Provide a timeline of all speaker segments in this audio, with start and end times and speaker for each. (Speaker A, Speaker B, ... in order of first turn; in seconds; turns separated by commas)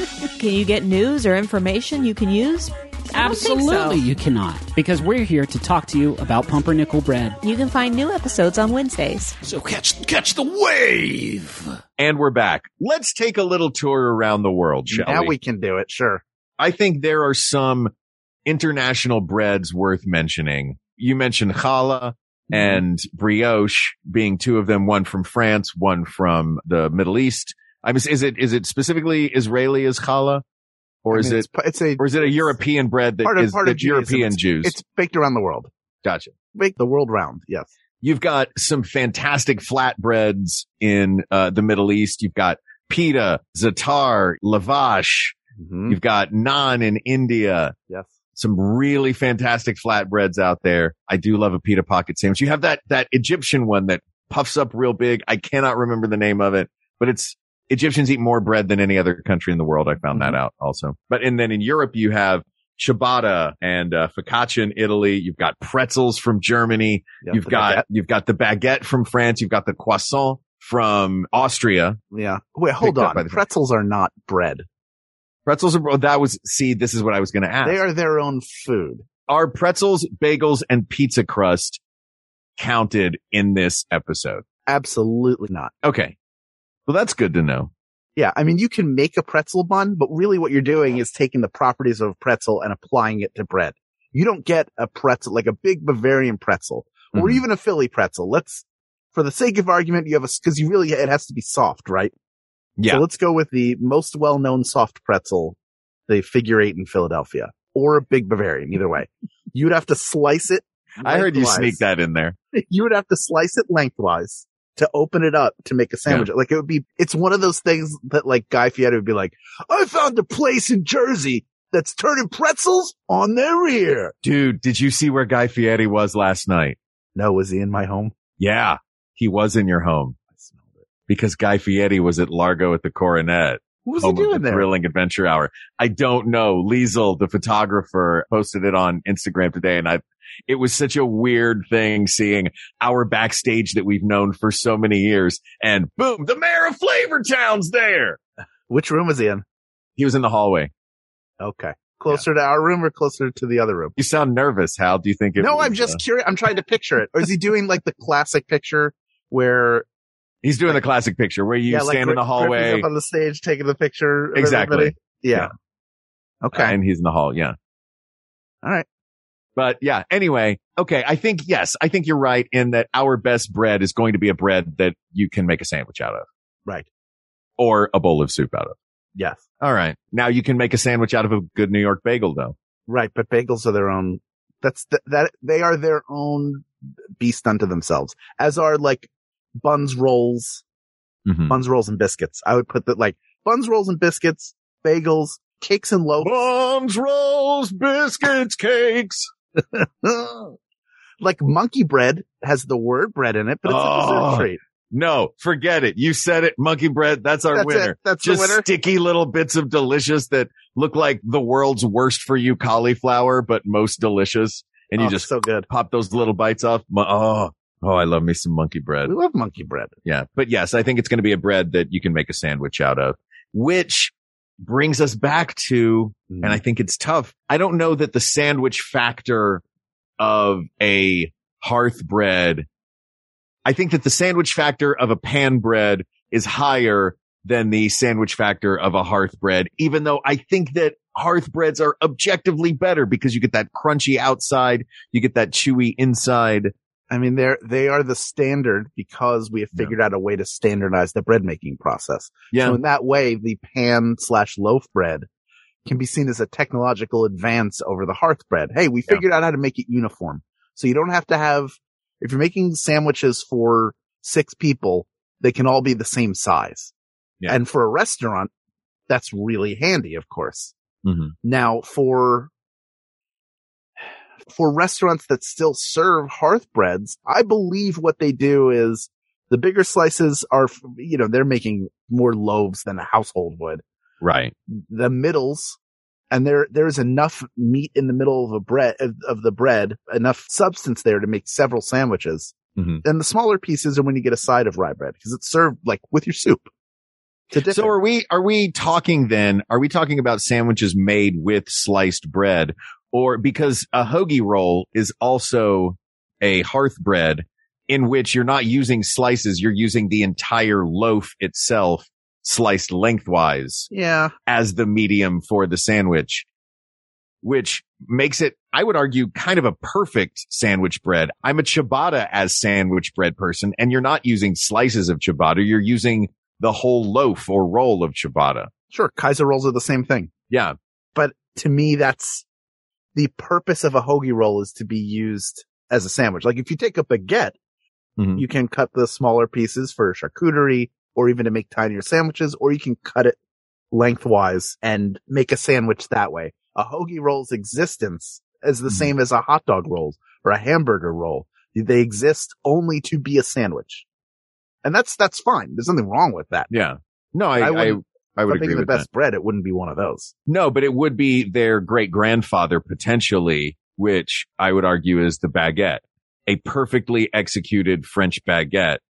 Speaker A: 0.3-4.0, Speaker B: 3.1-7.4, Speaker A: 7.4-9.4, Speaker C: 9.4-11.8, Speaker D: 12.0-15.3, Speaker E: 14.9-16.2, Speaker D: 16.6-17.9, Speaker D: 18.5-30.4, Speaker E: 22.5-22.8, Speaker D: 31.0-34.8, Speaker E: 31.1-32.6, Speaker E: 33.2-35.7, Speaker D: 36.0-36.3, Speaker E: 36.5-37.7, Speaker D: 38.0-45.4, Speaker E: 45.6-46.0, Speaker D: 45.9-47.8, Speaker D: 48.4-72.0, Speaker E: 67.2-67.8, Speaker E: 72.1-74.6, Speaker D: 72.8-73.4, Speaker D: 75.5-77.8, Speaker E: 77.6-79.0, Speaker D: 79.3-81.8, Speaker D: 82.6-84.4, Speaker E: 84.7-85.7, Speaker D: 85.8-86.2, Speaker D: 86.9-87.7, Speaker E: 88.2-102.1, Speaker D: 97.1-97.4, Speaker D: 102.8-103.0, Speaker E: 102.9-105.6, Speaker E: 106.1-111.8, Speaker D: 111.0-112.4, Speaker E: 112.5-124.2, Speaker D: 124.2-126.8, Speaker E: 127.2-128.1, Speaker D: 128.4-130.2, Speaker E: 130.4-130.8, Speaker D: 131.1-148.2, Speaker E: 133.8-134.7, Speaker E: 148.7-149.4, Speaker D: 150.0-150.7, Speaker E: 151.4-153.9, Speaker D: 154.0-156.0, Speaker E: 155.4-159.9, Speaker D: 160.4-162.9, Speaker E: 161.7-165.5, Speaker D: 164.3-165.5, Speaker E: 166.4-166.8, Speaker D: 166.5-167.6, Speaker D: 169.6-176.3, Speaker D: 177.6-178.8, Speaker E: 179.2-179.4, Speaker D: 179.6-182.6, Speaker E: 182.9-186.7, Speaker E: 187.2-190.6, Speaker D: 191.3-191.6, Speaker E: 191.5-196.3, Speaker D: 196.2-199.3, Speaker E: 199.7-200.6, Speaker E: 201.2-204.6, Speaker D: 203.7-219.1, Speaker E: 207.5-208.7, Speaker E: 215.0-215.7, Speaker E: 219.1-219.9, Speaker D: 220.1-229.6, Speaker E: 226.3-226.6, Speaker D: 230.2-232.7, Speaker D: 233.7-246.7, Speaker E: 247.1-255.3, Speaker D: 252.5-252.8, Speaker E: 255.9-266.9, Speaker E: 267.5-268.5, Speaker E: 269.1-270.7, Speaker D: 271.0-271.3, Speaker E: 271.4-272.5, Speaker E: 274.5-283.8, Speaker D: 284.2-284.5, Speaker E: 284.7-285.8, Speaker E: 286.3-296.7, Speaker D: 292.8-293.0, Speaker E: 297.5-297.9, Speaker D: 297.7-313.9, Speaker E: 313.9-314.3, Speaker D: 314.5-316.5, Speaker D: 317.4-328.7, Speaker E: 328.9-330.3, Speaker D: 330.5-330.8, Speaker E: 331.1-332.4, Speaker E: 333.1-337.6, Speaker D: 338.2-338.4, Speaker E: 338.4-343.4, Speaker E: 343.9-354.1, Speaker E: 354.8-356.7, Speaker D: 356.7-359.1, Speaker E: 357.6-360.3, Speaker D: 360.5-369.0